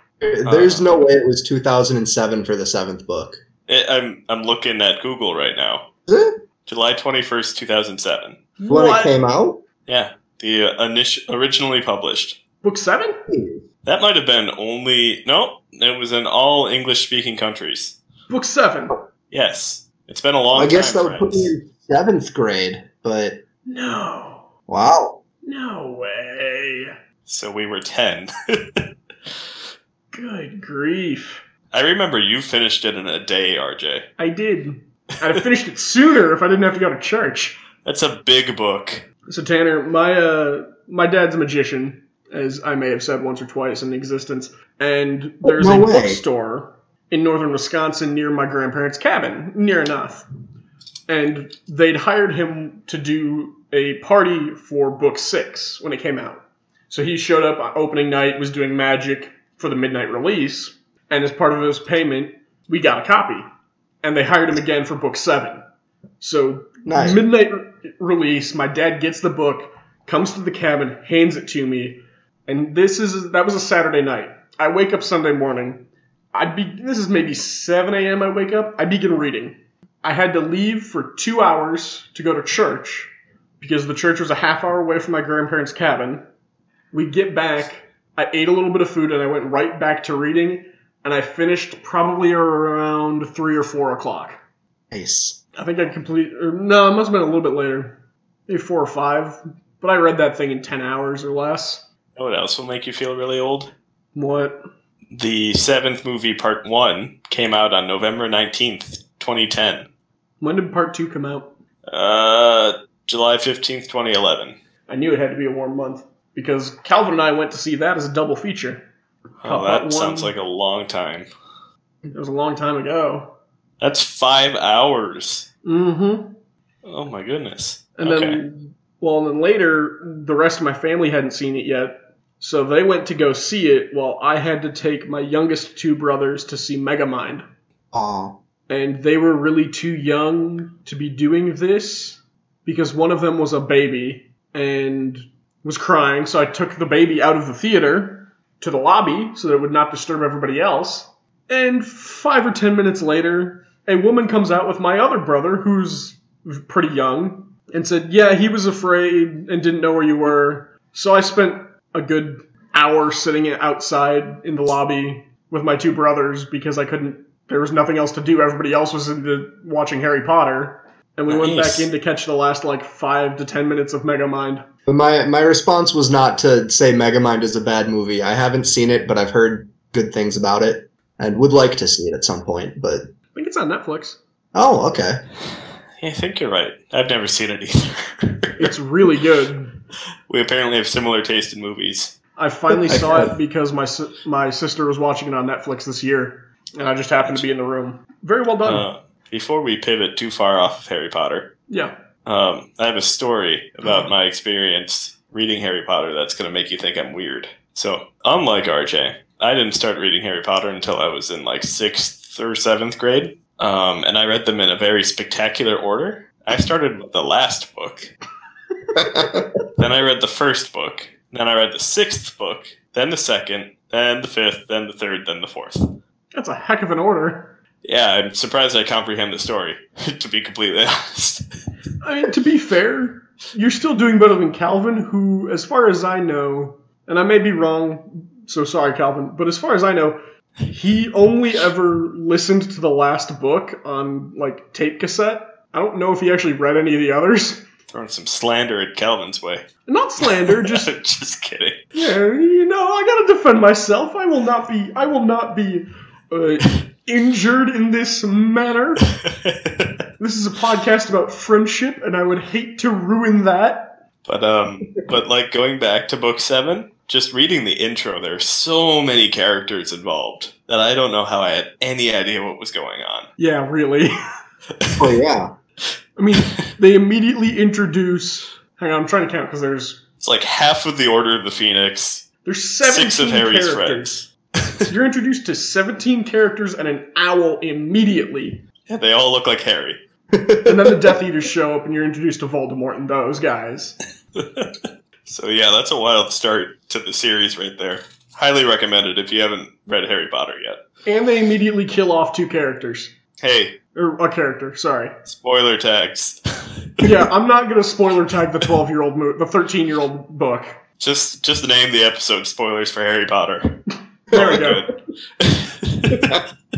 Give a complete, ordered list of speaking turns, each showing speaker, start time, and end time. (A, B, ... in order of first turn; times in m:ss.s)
0:00.2-0:03.4 A
0:00.4-0:00.8 B
0:03.7-0:05.8 B
0:06.1-0:06.3 A
0:06.7-0:08.4 B
0:08.6-0:09.2 C
0:08.7-0:09.6 A
0:09.9-0:12.4 B
0:12.6-0:13.2 C
0:13.3-0:13.6 A
0:13.8-0:18.0 B
0:18.3-0:19.0 C
0:19.3-0:21.5 B
0:20.6-0:23.4 A
0:23.7-0:24.5 C
0:24.7-0:25.2 A
0:25.5-0:26.9 C
0:27.3-0:28.8 B
0:30.1-0:31.4 C
0:31.7-0:34.1 B
0:34.2-0:37.6 C
0:37.8-0:39.0 B
0:39.3-0:50.3 C
0:45.4-0:46.2 A
0:51.1-1:03.5 C
1:04.0-1:05.6 C
1:06.2-1:26.2 C
1:06.9-1:07.2 A
1:26.9-1:34.4 C
1:34.9-1:35.4 A
1:35.6-1:41.8 C
1:42.2-1:43.7 B
1:44.2-1:44.6 C
1:45.1-1:49.9 B
1:50.4-1:51.5 C
1:51.9-1:54.6 B
1:54.9-1:58.8 C
1:59.4-2:01.3 B
1:59.4-2:00.3 C
2:02.1-2:03.3 C
2:03.8-2:05.5 B
2:05.6-2:06.3 C
2:06.8-2:08.4 B
2:08.0-2:17.4 C
2:17.9-2:18.3 A
2:18.7-2:54.6 C
2:51.3-2:51.9 B
2:54.9-3:03.0 A
3:03.4-3:04.2 C
3:04.5-3:05.2 A
3:06.0-3:08.7 B
3:08.6-3:09.8 C
3:10.3-3:12.2 B
3:12.4-3:18.9 C
3:12.9-3:13.3 A
3:18.7-3:21.5 B
3:21.7-3:21.9 C
3:22.3-3:38.1 B
3:39.0-3:39.4 A
3:39.8-3:45.9 B
3:46.3-3:47.5 C
3:47.8-3:51.4 B
3:52.0-4:07.6 C
4:07.9-4:09.7 B
4:09.9-4:10.9 C
4:10.2-4:11.8 B
4:11.9-4:19.1 C
4:19.3-4:19.9 B
4:20.2-4:24.0 C
4:24.3-4:33.3 B
4:33.4-4:34.1 C
4:35.0-4:35.5 A
4:36.2-4:40.0 C
4:40.2-4:42.3 B
4:42.4-4:44.2 C
4:42.8-4:44.9 B
4:44.9-4:48.6 C
4:48.9-4:50.0 B
4:50.3-4:51.1 A
4:50.6-4:54.0 C
4:54.4-4:54.7 B
4:55.3-5:00.8 B
5:01.1-5:03.1 C
5:03.4-5:03.8 B
5:04.0-5:05.1 C
5:05.3-5:07.1 B
5:07.0-5:10.8 C
5:11.0-5:13.8 B
5:14.3-5:14.8 C
5:14.3-5:16.4 B